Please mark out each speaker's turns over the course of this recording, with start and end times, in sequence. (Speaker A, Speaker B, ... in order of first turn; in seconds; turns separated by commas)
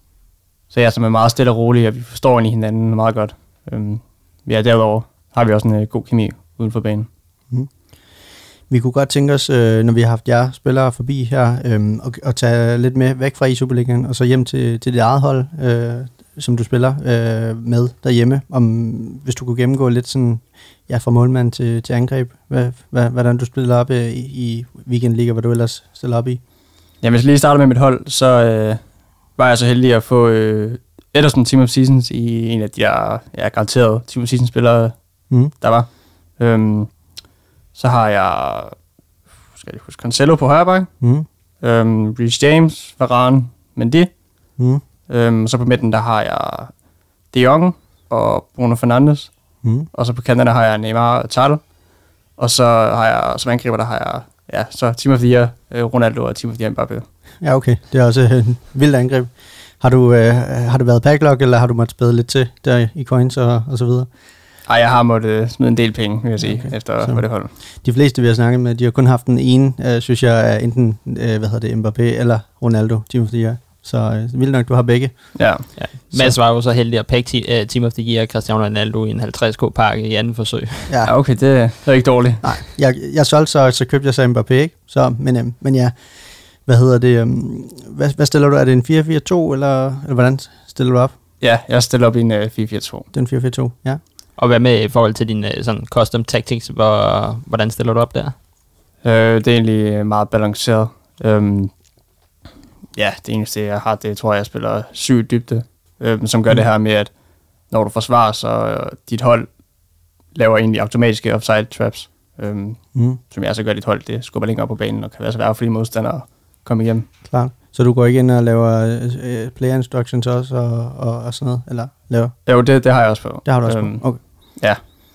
Speaker A: 0.7-7.1, Speaker B: 8.7-26.4, Speaker A: 27.0-37.2, Speaker A: 37.7-38.8, Speaker A: 39.5-40.9, Speaker B: 41.0-41.2, Speaker A: 41.6-44.2, Speaker B: 44.6-44.8, Speaker A: 45.1-46.8, Speaker A: 47.3-51.8, Speaker B: 49.6-49.9, Speaker A: 52.3-57.1, Speaker B: 57.4-64.1, Speaker A: 64.7-67.5, Speaker B: 66.4-75.6, Speaker A: 75.3-76.3, Speaker C: 75.8-80.9, Speaker B: 80.9-81.1, Speaker A: 81.0-82.5, Speaker B: 82.4-91.1, Speaker A: 91.4-93.1, Speaker B: 93.1-94.0, Speaker C: 94.4-98.3, Speaker A: 99.0-101.8, Speaker A: 102.9-117.0, Speaker B: 112.9-113.2, Speaker B: 117.2-122.4, Speaker A: 122.5-124.8, Speaker B: 123.4-124.7